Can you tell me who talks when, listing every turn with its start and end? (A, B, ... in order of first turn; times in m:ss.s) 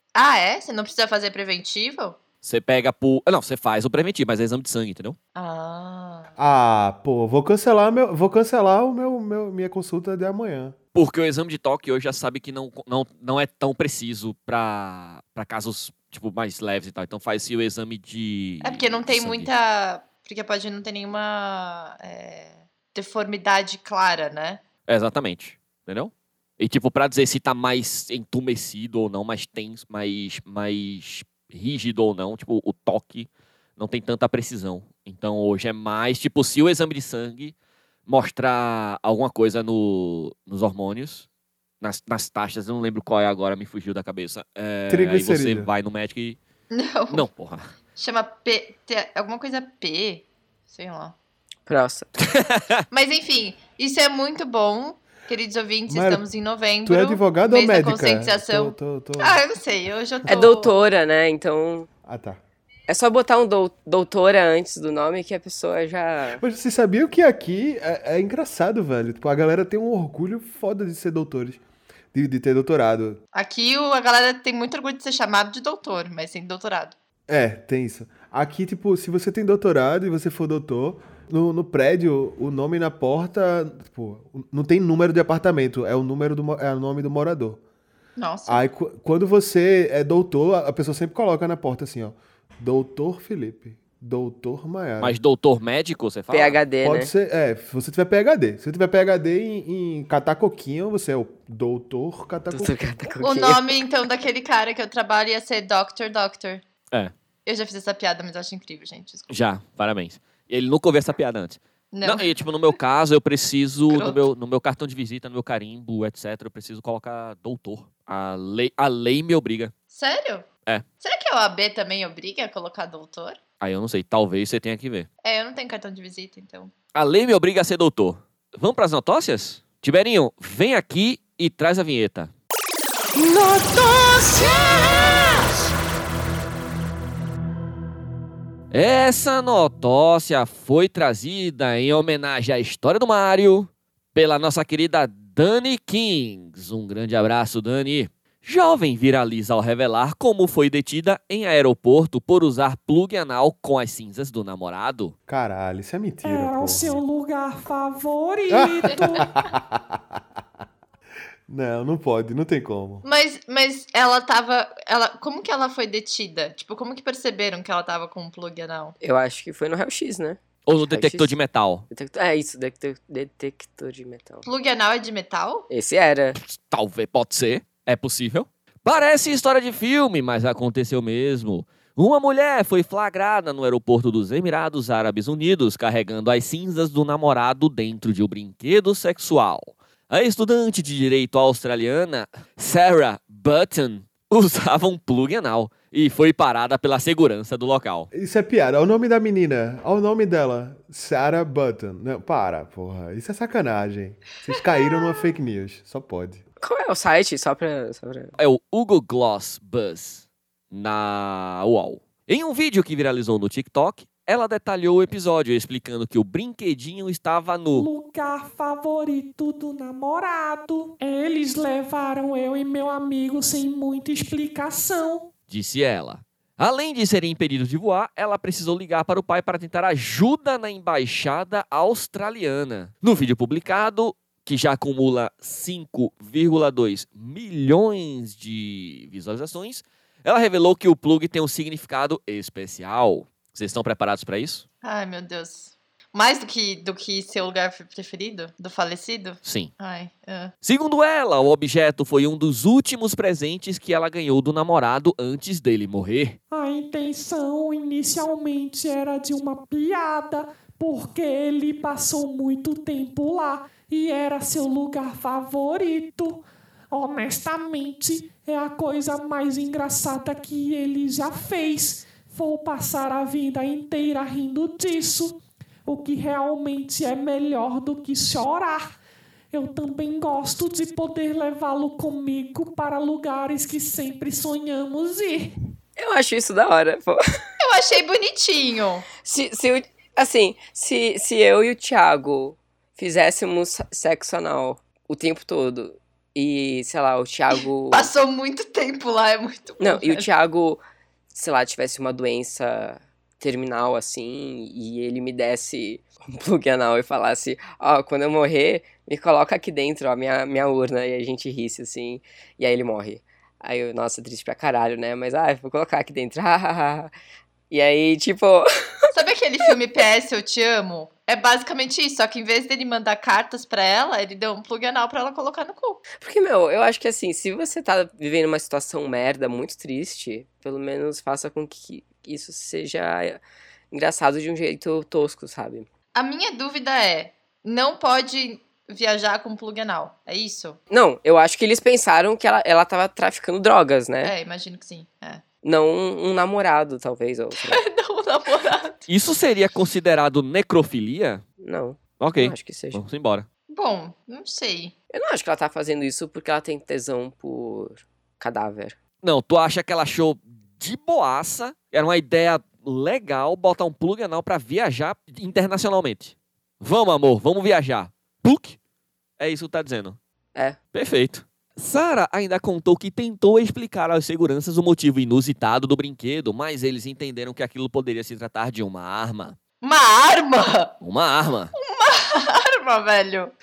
0:00.2-0:02.2 A
0:02.4-0:05.2 B
0:05.4-0:06.3 A
0:06.4-0:10.8 C
0:11.0-0:19.5 B
0:18.6-0:24.6 A
0:24.9-0:37.5 B
0:38.1-0:41.3 B
0:41.8-0:46.4 B
0:44.9-0:45.7 C
0:46.7-0:47.3 A
0:47.1-0:47.7 B
0:48.0-0:51.2 A
0:51.7-0:52.1 D
0:52.2-0:52.8 B
0:52.9-1:00.7 A
0:55.9-0:56.2 C
0:56.8-0:59.4 C
1:00.3-1:01.9 D
1:02.0-1:02.4 C
1:02.9-1:06.4 D
1:06.4-1:11.6 C
1:12.1-1:13.2 C
1:13.3-1:17.0 A
1:17.3-1:27.6 C
1:28.2-1:28.7 A
1:28.5-1:35.2 C
1:35.0-1:36.6 B
1:36.3-1:37.1 D
1:36.8-1:42.8 C
1:42.5-1:43.8 D
1:43.2-1:46.6 A
1:47.5-1:49.3 A
1:49.3-1:59.7 B
1:51.9-1:52.3 A
1:53.9-1:54.2 A
1:59.9-2:00.5 A
2:01.0-2:03.4 A
2:03.6-2:05.1 B
2:05.2-2:06.7 A
2:07.0-2:12.3 B
2:18.7-2:35.2 B
2:35.3-2:37.0 C
2:36.2-2:39.3 E
2:38.5-2:40.2 C
2:41.5-2:43.0 C
2:43.0-2:49.0 A
2:49.0-2:51.4 D
2:50.7-2:51.9 B
2:51.9-2:54.4 D
2:54.4-2:55.7 A
2:55.7-2:56.4 D
2:56.4-3:18.1 B
3:18.1-3:26.4 C
3:26.6-3:28.4 D
3:28.4-3:37.9 B
3:37.7-3:45.3 E
3:45.5-4:04.6 B
4:04.8-4:10.5 A
4:09.4-4:09.7 B
4:10.6-4:16.4 B
4:16.5-4:39.0 E
4:39.5-4:45.6 E
4:46.0-4:47.2 D
4:47.6-4:49.1 A
4:49.2-4:58.1 D
4:57.9-5:00.3 A
4:59.8-5:17.1 D
5:17.7-5:18.7 D
5:19.1-5:26.0 A
5:26.2-5:35.9 D
5:36.2-5:40.8 A
5:40.9-5:44.3 D
5:44.2-5:45.4 A
5:45.6-5:47.8 D
5:47.6-5:49.0 A
5:49.1-5:51.4 B
5:51.6-5:53.0 D
5:52.2-5:53.5 B
5:53.7-5:54.9 A
5:55.1-5:59.0 D
5:59.2-6:08.8 B
6:09.4-6:10.2 B
6:10.9-6:19.6 B
6:19.8-6:21.0 A
6:21.0-6:21.7 B
6:21.8-6:23.5 A